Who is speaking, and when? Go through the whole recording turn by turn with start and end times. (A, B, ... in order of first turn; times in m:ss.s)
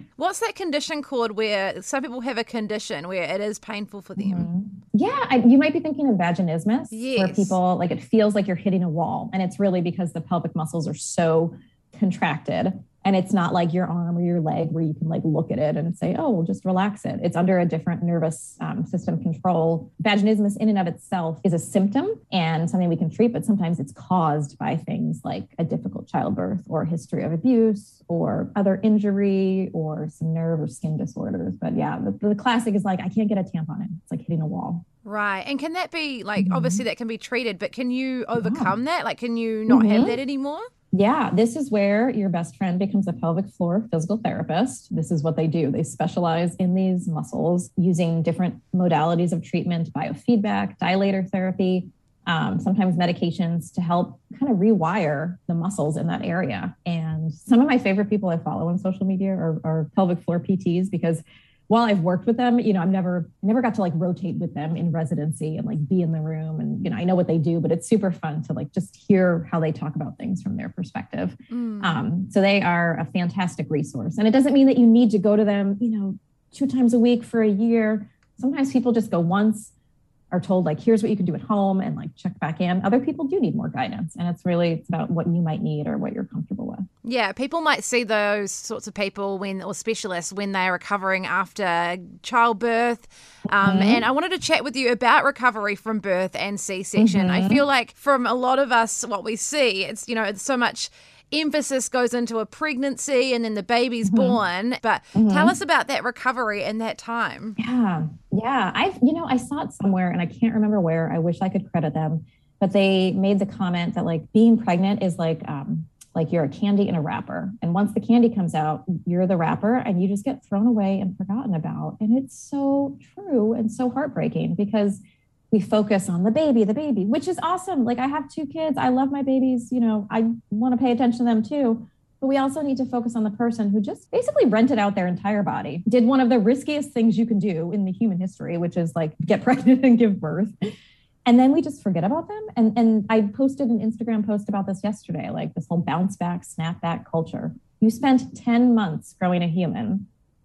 0:00.2-0:04.5 A
0:04.2-0:34.8 B
0:06.9-0:07.6 A
0:35.0-0:40.7 A
0:36.4-0:36.8 B
0:38.3-0:38.7 B
0:39.7-0:40.2 B
0:40.9-1:19.7 B
1:11.5-1:12.0 A
1:20.3-1:26.9 B
1:27.0-1:47.6 A
1:33.6-1:34.0 B
1:37.0-1:37.6 B
1:44.0-1:44.4 B
1:45.1-1:45.5 B
1:47.6-2:20.5 B
2:21.2-2:30.0 B